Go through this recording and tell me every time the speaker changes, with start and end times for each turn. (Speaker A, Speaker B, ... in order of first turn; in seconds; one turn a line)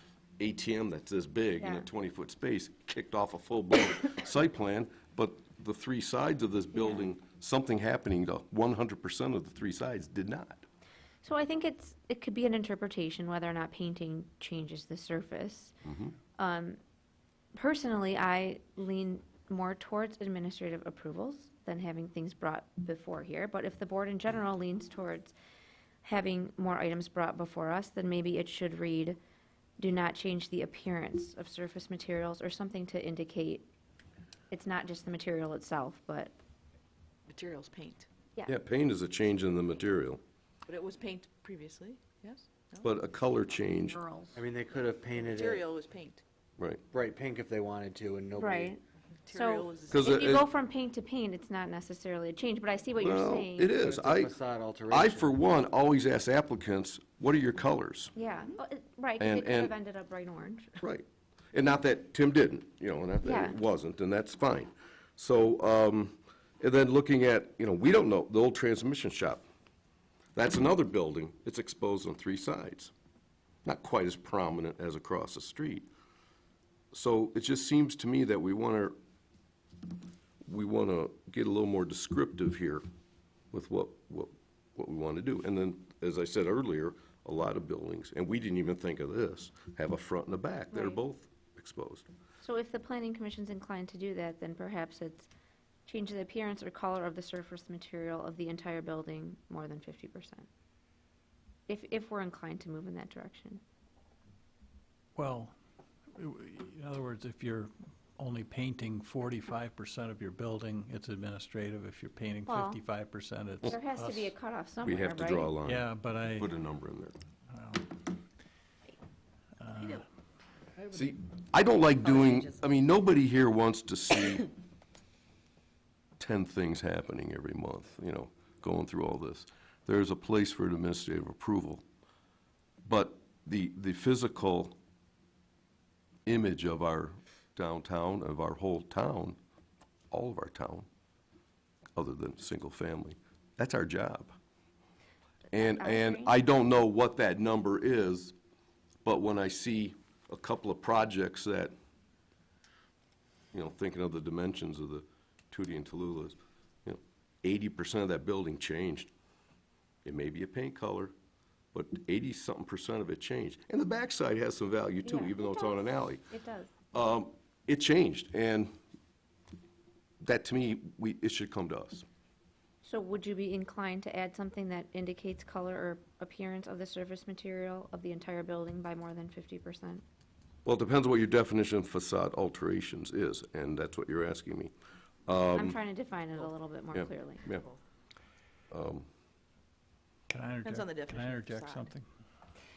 Speaker A: 0.4-10.7
Speaker B: 1.6-1.9
Speaker B: 11.2-15.8
Speaker A: 15.8-16.1
Speaker B: 16.4-16.8
Speaker B: 17.6-25.3
Speaker B: 26.0-29.2
Speaker B: 29.8-33.7
Speaker B: 34.5-36.3
Speaker C: 37.3-38.0
Speaker A: 38.5-40.2
Speaker C: 40.7-42.5
Speaker A: 42.8-44.0
Speaker D: 44.4-45.6
Speaker C: 45.4-46.2
Speaker D: 46.9-48.8
Speaker B: 48.4-48.8
Speaker B: 49.3-53.8
Speaker C: 49.3-49.9
Speaker A: 49.9-50.5
Speaker A: 53.0-54.4
Speaker D: 53.8-55.4
Speaker A: 54.9-58.1
Speaker B: 58.1-60.8
Speaker A: 59.2-59.7
Speaker A: 60.8-69.4
Speaker B: 63.2-63.6
Speaker A: 70.3-72.9
Speaker A: 73.7-75.9
Speaker A: 76.9-79.0
Speaker A: 80.5-82.8
Speaker A: 83.5-92.1
Speaker B: 90.7-91.0
Speaker B: 92.4-95.3
Speaker B: 95.9-100.5
Speaker B: 101.7-103.6
Speaker E: 105.2-105.5
Speaker E: 106.2-114.3
Speaker B: 112.5-112.8
Speaker B: 113.7-115.6
Speaker A: 114.8-117.2
Speaker E: 115.6-116.5
Speaker E: 117.5-118.0
Speaker E: 119.6-120.0
Speaker A: 120.9-124.5
Speaker A: 126.2-131.8
Speaker A: 132.9-134.8
Speaker A: 136.3-139.4
Speaker A: 140.1-140.9
Speaker A: 142.0-144.3
Speaker A: 145.5-148.3
Speaker B: 145.6-146.3
Speaker A: 149.1-151.7
Speaker A: 153.5-159.1
Speaker A: 160.0-161.1
Speaker A: 161.7-166.3
Speaker B: 165.0-166.8
Speaker A: 166.9-168.7
Speaker A: 170.2-172.1
Speaker B: 172.8-180.0
Speaker A: 180.7-184.7
Speaker A: 185.3-185.8
Speaker B: 185.5-187.5
Speaker A: 186.9-187.7
Speaker A: 188.7-189.1
Speaker E: 190.3-192.1
Speaker C: 190.7-191.9